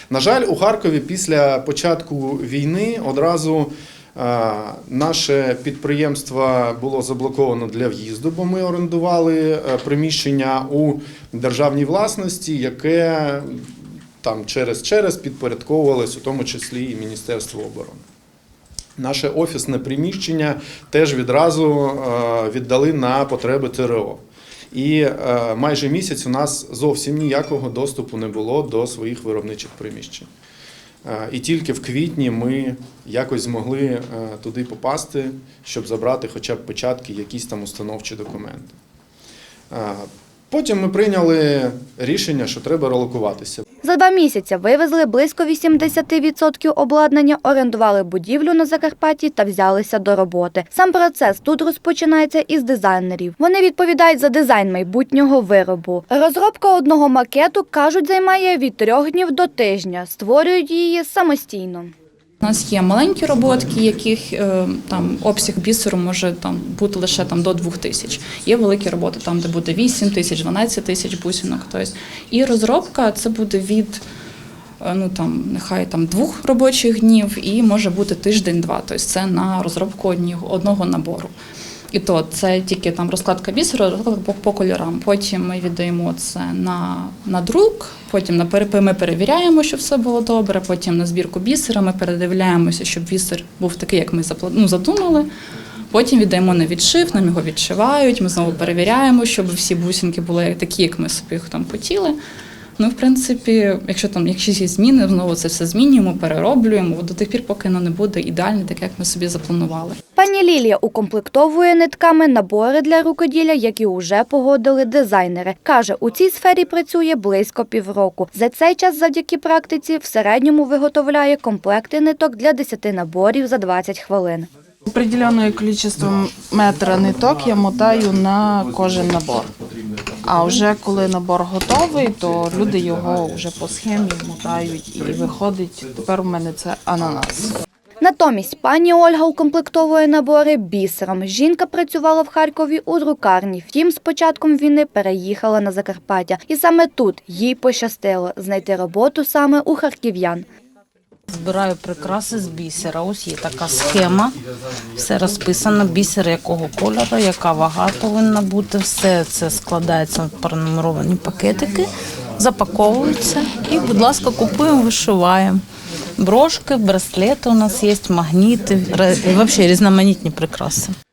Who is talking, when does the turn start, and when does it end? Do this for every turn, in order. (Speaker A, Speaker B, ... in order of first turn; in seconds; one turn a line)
Speaker A: 0.1-18.0
Speaker A: 19.0-24.2
Speaker A: 24.7-30.3
Speaker A: 31.1-38.8
Speaker A: 39.7-43.6
Speaker B: 43.8-61.9
Speaker C: 62.4-74.0
Speaker C: 74.8-81.3
Speaker C: 81.9-95.3
Speaker C: 95.9-102.2
Speaker C: 102.8-110.0
Speaker B: 110.2-124.5
Speaker D: 124.9-129.5
Speaker D: 130.2-137.6
Speaker B: 138.0-150.5
Speaker E: 151.3-154.4
Speaker E: 154.9-165.6
Speaker E: 166.2-170.9